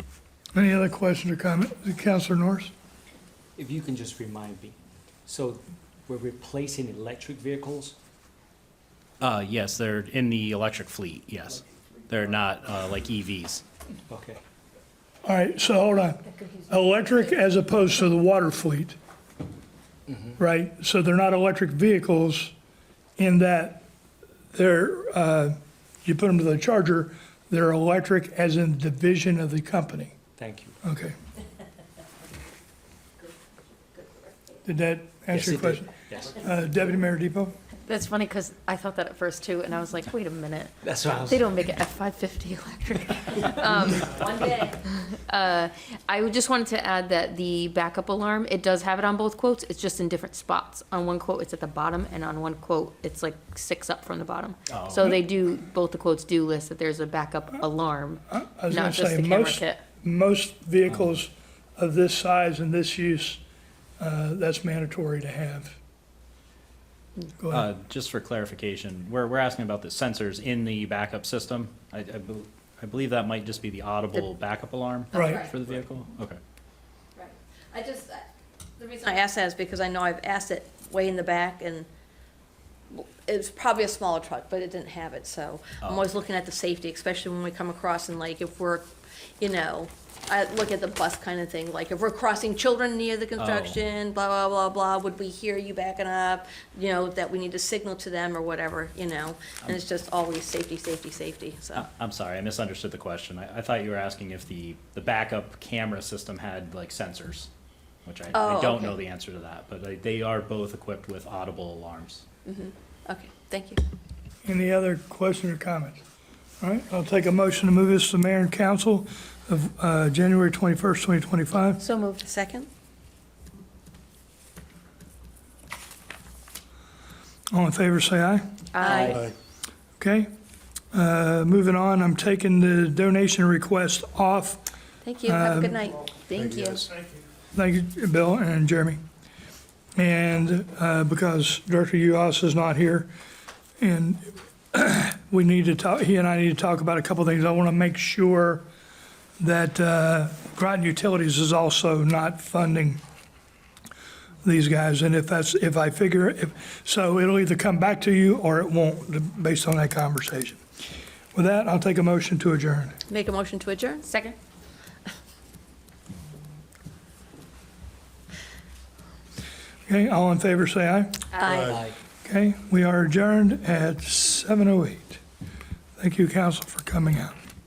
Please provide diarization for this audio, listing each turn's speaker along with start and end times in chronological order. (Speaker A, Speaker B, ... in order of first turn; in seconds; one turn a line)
Speaker A: 0.5-2.7
Speaker B: 3.5-8.0
Speaker C: 9.2-13.6
Speaker B: 14.1-14.4
Speaker A: 15.2-18.9
Speaker A: 20.4-22.5
Speaker A: 23.2-23.9
Speaker A: 24.5-30.2
Speaker B: 30.4-30.8
Speaker A: 30.8-31.1
Speaker A: 34.6-37.5
Speaker B: 35.3-36.4
Speaker D: 37.9-59.8
Speaker B: 40.8-41.5
Speaker E: 44.1-44.8
Speaker C: 54.7-55.1
Speaker A: 58.3-63.4
Speaker C: 60.9-61.1
Speaker A: 64.0-65.8
Speaker A: 67.4-67.7
Speaker C: 67.5-76.4
Speaker A: 75.1-75.5
Speaker E: 75.1-75.5
Speaker E: 77.2-78.3
Speaker E: 78.8-81.9
Speaker E: 82.9-101.9
Speaker C: 85.8-86.1
Speaker C: 93.4-93.8
Speaker C: 101.7-107.5
Speaker C: 108.0-112.2
Speaker E: 108.3-109.0
Speaker E: 112.5-113.8
Speaker A: 114.4-116.0
Speaker A: 116.6-121.8
Speaker D: 121.8-122.2
Speaker E: 122.2-122.7
Speaker A: 127.5-128.6
Speaker D: 128.7-129.3
Speaker E: 128.8-129.3
Speaker A: 130.0-130.3
Speaker A: 130.9-134.7
Speaker E: 135.0-136.1
Speaker A: 135.2-135.8
Speaker D: 136.3-136.9
Speaker A: 137.5-139.0
Speaker A: 139.9-143.1
Speaker A: 143.8-148.6
Speaker A: 149.4-153.0
Speaker A: 154.4-160.6
Speaker A: 161.3-163.0
Speaker E: 163.1-164.1
Speaker D: 164.0-164.3
Speaker A: 169.9-171.2
Speaker D: 171.3-171.6
Speaker E: 171.4-171.8
Speaker B: 171.6-171.9
Speaker A: 172.2-175.2
Speaker A: 176.0-177.3